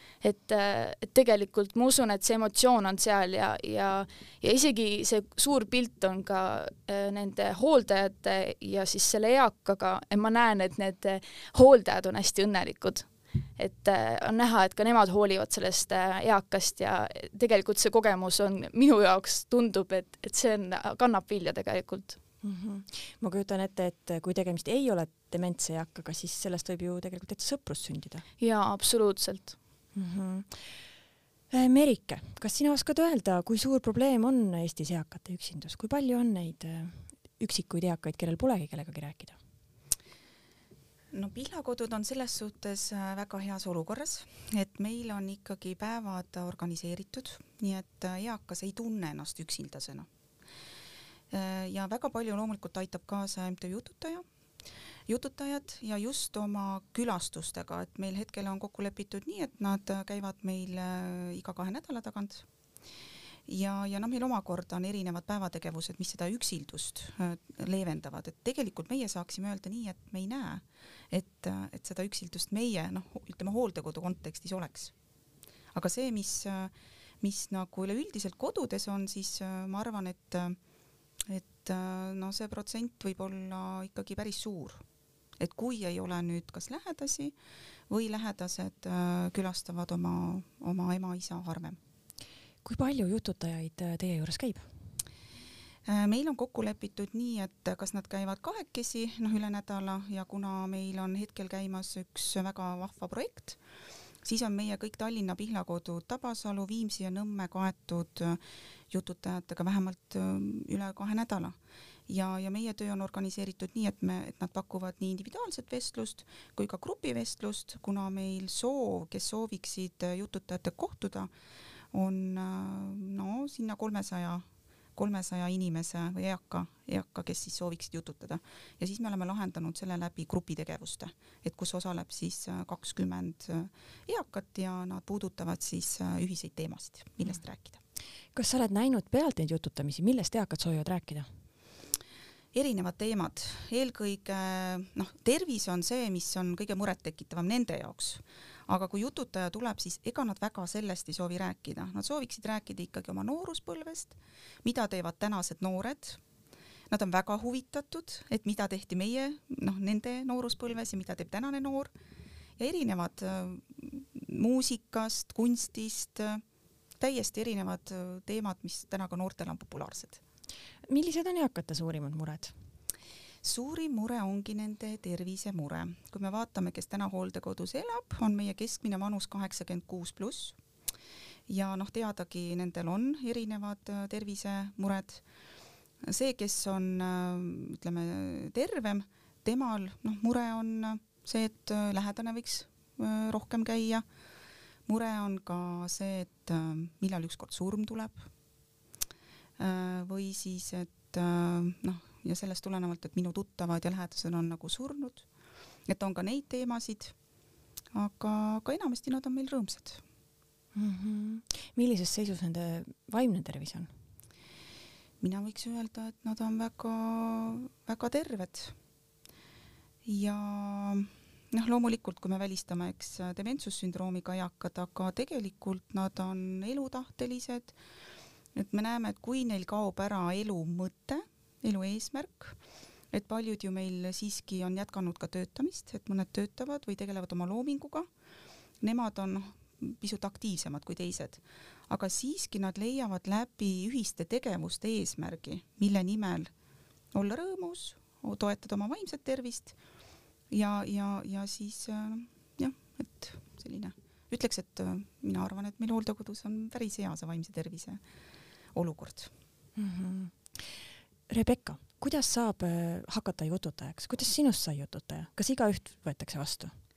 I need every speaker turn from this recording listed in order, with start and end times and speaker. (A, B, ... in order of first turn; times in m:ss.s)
0:00.2-0:22.2 A
0:22.4-0:28.2 B
0:28.4-0:29.5 A
0:29.9-0:30.7 B
0:31.5-0:39.4 B
0:41.1-0:50.1 C
0:51.3-0:54.2 C
0:55.1-1:02.4 C
1:03.5-1:14.9 C
1:15.7-1:20.6 C
1:21.3-1:24.8 C
1:25.4-1:27.3 C
1:27.9-1:31.8 C
1:32.6-1:34.6 B
1:35.8-1:43.6 C
1:44.2-1:48.4 C
1:48.9-1:51.6 C
1:52.1-2:01.3 C
2:01.9-2:04.4 C
2:05.0-2:17.8 C
2:18.3-2:21.3 B
2:22.5-2:36.2 C
2:36.9-2:41.9 C
2:42.6-2:46.4 C
2:47.0-2:50.2 C
2:50.9-2:52.5 B
2:53.4-3:00.6 C
3:01.5-3:05.2 C
3:06.0-3:14.0 C
3:14.9-3:18.3 C
3:19.6-3:25.2 C
3:25.9-3:27.1 C
3:27.9-3:30.0 C
3:30.7-3:33.9 B
3:35.2-3:38.7 C
3:40.0-3:47.7 C
3:48.5-3:52.6 C
3:53.1-3:58.1 C
3:58.8-4:06.5 C
4:07.1-4:09.7 C
4:10.5-4:18.0 C
4:18.7-4:19.3 C
4:19.8-4:20.7 B
4:21.3-4:26.7 B